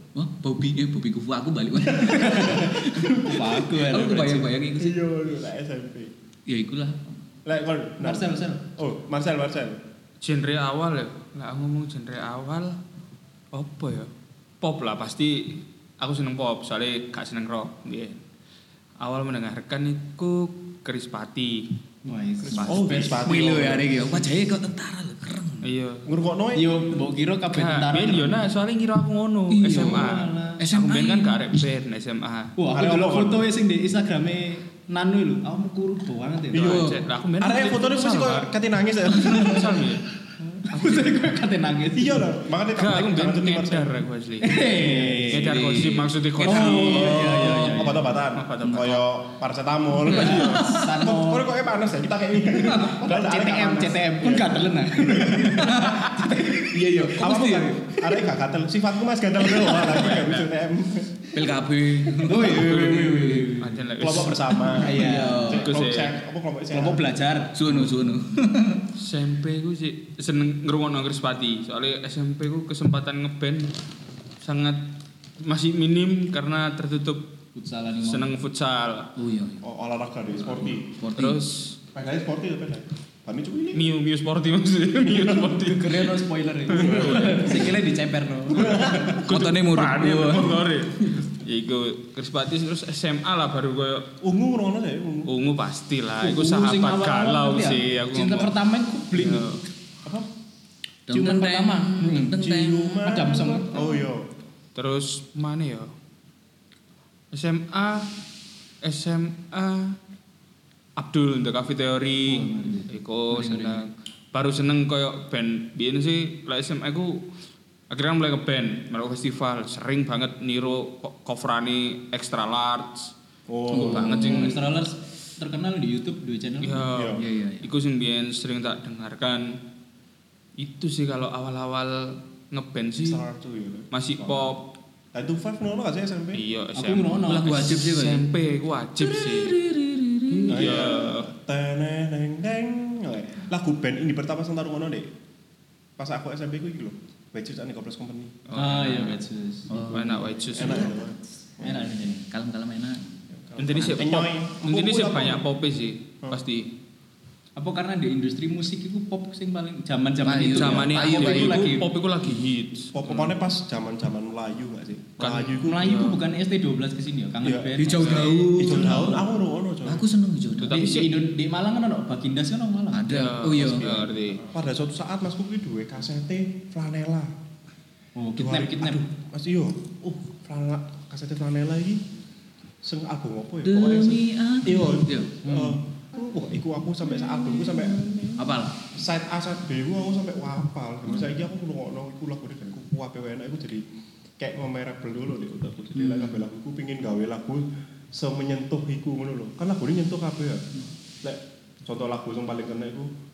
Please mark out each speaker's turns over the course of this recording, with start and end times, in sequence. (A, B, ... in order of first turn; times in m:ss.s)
0:00.1-0:05.0 A
0:02.0-0:02.5 B
0:02.0-0:04.5 C
0:04.8-0:06.1 B
0:06.4-0:07.0 A
0:07.4-0:09.8 B
0:08.0-0:08.6 C
0:10.2-0:12.8 D
0:13.5-0:18.2 D
0:19.0-0:21.6 D
0:22.0-0:23.3 C
0:22.4-0:24.0 B
0:22.5-0:25.7 A
0:25.6-0:26.1 D
0:26.0-0:26.7 B
0:26.5-0:28.5 C
0:27.5-0:32.5 D
0:29.5-0:31.6 A
0:29.7-0:30.6 C
0:32.6-0:36.9 C
0:32.7-0:33.5 B
0:36.5-0:36.9 B
0:36.5-0:38.5 D
0:36.5-0:37.0 A
0:37.4-0:40.0 B
0:39.0-0:40.0 D
0:40.5-0:42.2 C
0:40.7-0:41.2 D
0:42.0-0:44.0 B
0:42.7-0:44.8 D
0:44.4-0:45.7 C
0:45.3-0:47.8 A
0:45.3-0:49.0 D
0:46.4-0:48.2 C
0:46.4-0:55.8 B
0:48.6-0:48.9 A
0:50.0-0:50.8 A
0:50.1-0:51.5 C
0:52.8-0:57.6 C
0:55.5-0:56.3 A
0:56.6-1:01.3 B
0:56.9-0:57.9 A
0:59.6-0:59.9 A
0:59.8-1:00.5 D
1:01.3-1:03.5 A
1:02.2-1:03.8 C
1:02.5-1:05.1 D
1:04.0-1:07.1 B
1:04.7-1:05.7 A
1:04.8-1:05.6 C
1:05.6-1:06.2 D
1:06.7-1:07.6 C
1:07.5-1:08.9 A
1:09.0-1:13.8 D
1:14.4-1:17.3 D
1:17.5-1:18.3 C
1:18.0-1:19.1 D
1:19.2-1:19.6 A
1:19.6-1:20.9 B
1:20.8-1:21.4 A
1:21.1-1:21.8 D
1:21.9-1:23.9 B
1:23.7-1:27.8 D
1:25.0-1:25.5 B
1:25.4-1:29.2 C
1:26.7-1:27.6 B
1:28.5-1:29.2 B
1:28.6-1:34.1 D
1:29.2-1:30.6 A
1:34.2-1:35.3 B
1:35.3-1:38.6 D
1:36.2-1:40.2 C
1:39.1-1:39.6 D
1:41.1-1:43.6 A
1:41.1-1:42.1 C
1:42.0-1:44.2 B
1:43.0-1:43.9 C
1:44.7-1:45.9 D
1:47.3-1:48.1 D
1:48.8-1:50.0 D
1:51.0-1:57.2 D
1:52.2-1:53.9 C
1:57.9-2:03.1 D
2:03.5-2:04.3 B
2:03.7-2:04.7 D
2:03.7-2:04.6 A
2:03.9-2:06.9 C
2:06.6-2:09.6 D
2:06.9-2:07.2 B
2:07.2-2:07.7 A
2:10.6-2:13.2 D
2:13.0-2:14.6 B
2:13.9-2:14.7 D
2:15.1-2:16.4 B
2:16.3-2:19.7 D
2:16.8-2:17.7 C
2:17.2-2:18.2 A
2:19.0-2:20.6 A
2:20.5-2:21.3 D
2:20.5-2:25.1 B
2:26.0-2:28.4 B
2:28.5-2:29.2 D
2:28.5-2:31.0 C
2:29.7-2:31.1 A
2:29.8-2:30.9 D
2:30.5-2:31.9 B
2:31.6-2:32.2 C
2:31.6-2:33.2 A
2:33.3-2:35.4 B
2:33.6-2:36.7 D
2:33.8-2:34.0 A
2:37.6-2:41.8 C
2:40.2-2:41.8 A
2:40.4-2:43.3 D
2:42.9-2:46.0 B
2:45.2-2:46.2 D
2:45.6-2:48.9 C
2:47.4-2:50.0 B
2:47.8-2:49.3 A
2:48.0-2:48.6 D
2:49.8-2:50.9 A
2:50.5-2:51.2 D
2:50.7-2:53.1 C
2:52.9-2:54.1 A
2:53.0-2:54.4 D
2:54.5-2:57.3 B
2:58.1-2:59.0 C
2:58.4-3:02.0 B
3:02.8-3:13.8 B
3:03.6-3:05.4 A
3:07.2-3:08.8 A
3:14.4-3:20.7 B
3:16.0-3:16.4 A
3:21.2-3:23.1 B